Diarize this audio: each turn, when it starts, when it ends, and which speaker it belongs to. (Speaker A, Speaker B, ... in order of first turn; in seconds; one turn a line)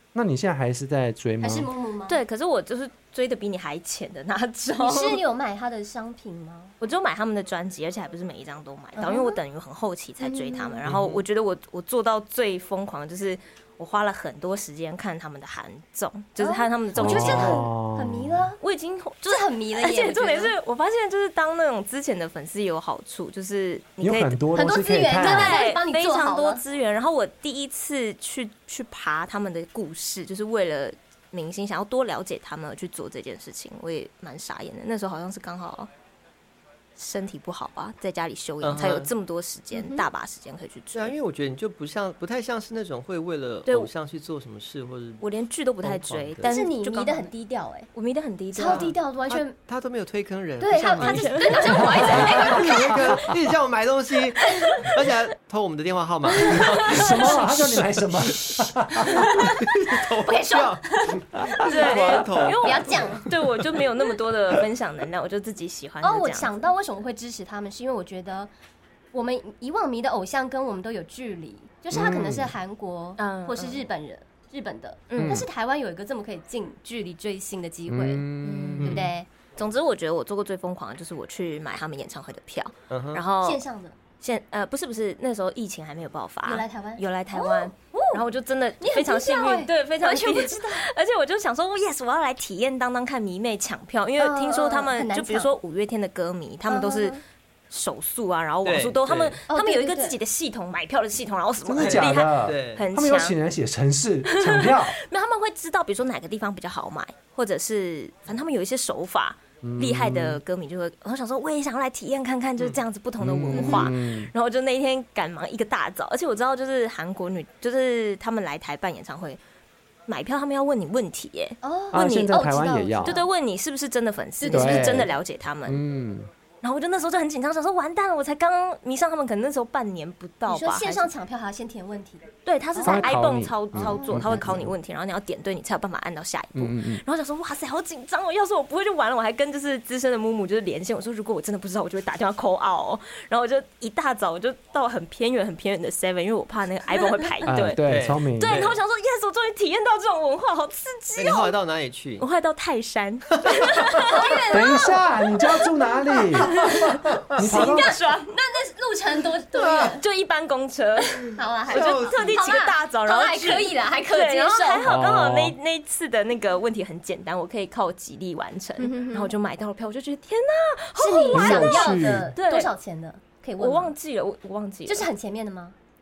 Speaker A: 0.1-1.7
Speaker B: 1.4-2.2
Speaker C: 2.1-5.2
Speaker B: 4.8-6.7
Speaker C: 6.8-17.6
Speaker B: 8.9-9.4
Speaker B: 10.2-10.8
Speaker D: 10.8-11.2
Speaker B: 16.4-18.6
Speaker A: 16.9-18.4
Speaker C: 18.6-24.4
Speaker B: 19.2-20.5
Speaker A: 24.0-25.6
Speaker B: 24.5-26.6
Speaker C: 25.1-35.9
Speaker C: 37.0-41.1
Speaker D: 38.6-39.1
Speaker B: 39.7-40.0
Speaker D: 40.9-45.2
Speaker C: 45.2-47.3
Speaker D: 45.8-46.5
Speaker B: 46.4-47.9
Speaker C: 47.9-48.9
Speaker B: 48.5-49.5
Speaker D: 48.6-58.6
Speaker B: 50.6-53.2
Speaker C: 51.0-52.6
Speaker A: 51.8-53.4
Speaker C: 56.5-57.5
Speaker A: 56.9-59.5
Speaker B: 59.1-63.3
Speaker D: 59.2-63.1
Speaker C: 61.6-66.5
Speaker B: 66.0-68.5
Speaker B: 69.1-78.3
Speaker A: 71.9-72.5
Speaker C: 73.2-73.8
Speaker C: 75.1-75.5
Speaker A: 75.1-75.5
Speaker A: 77.9-79.1
Speaker C: 78.4-83.6
Speaker D: 78.8-79.1
Speaker B: 78.8-79.3
Speaker D: 82.9-83.2
Speaker B: 83.4-84.0
Speaker C: 84.2-97.2
Speaker B: 86.4-88.2
Speaker B: 88.8-90.8
Speaker B: 94.2-95.5
Speaker B: 96.7-97.2
Speaker C: 97.7-103.3
Speaker D: 98.6-99.4
Speaker B: 99.5-100.2
Speaker A: 101.6-105.0
Speaker D: 101.8-102.9
Speaker C: 104.3-119.4
Speaker A: 109.6-110.4
Speaker A: 113.2-114.3
Speaker B: 113.5-113.9
Speaker C: 120.1-122.4
Speaker B: 121.6-123.3
Speaker A: 121.9-123.2
Speaker C: 123.0-125.8
Speaker B: 124.4-125.1
Speaker A: 124.5-125.1
Speaker A: 125.7-126.3
Speaker C: 126.6-131.1
Speaker B: 130.4-133.1
Speaker C: 132.4-147.8
Speaker A: 132.8-134.7
Speaker B: 133.8-134.2
Speaker A: 136.5-137.0
Speaker A: 147.4-148.7
Speaker D: 147.8-148.8
Speaker C: 148.3-151.5
Speaker D: 151.2-152.2
Speaker C: 152.2-154.8
Speaker D: 153.4-153.8
Speaker B: 154.0-160.0
Speaker A: 154.5-156.7
Speaker C: 156.5-158.3
Speaker A: 157.3-157.9
Speaker D: 159.5-159.9
Speaker C: 159.8-172.7
Speaker B: 161.3-164.9
Speaker D: 161.7-162.3
Speaker A: 164.8-165.6
Speaker B: 168.8-169.3
Speaker B: 171.0-173.9
Speaker A: 171.3-172.3
Speaker C: 173.6-175.1
Speaker B: 174.9-175.7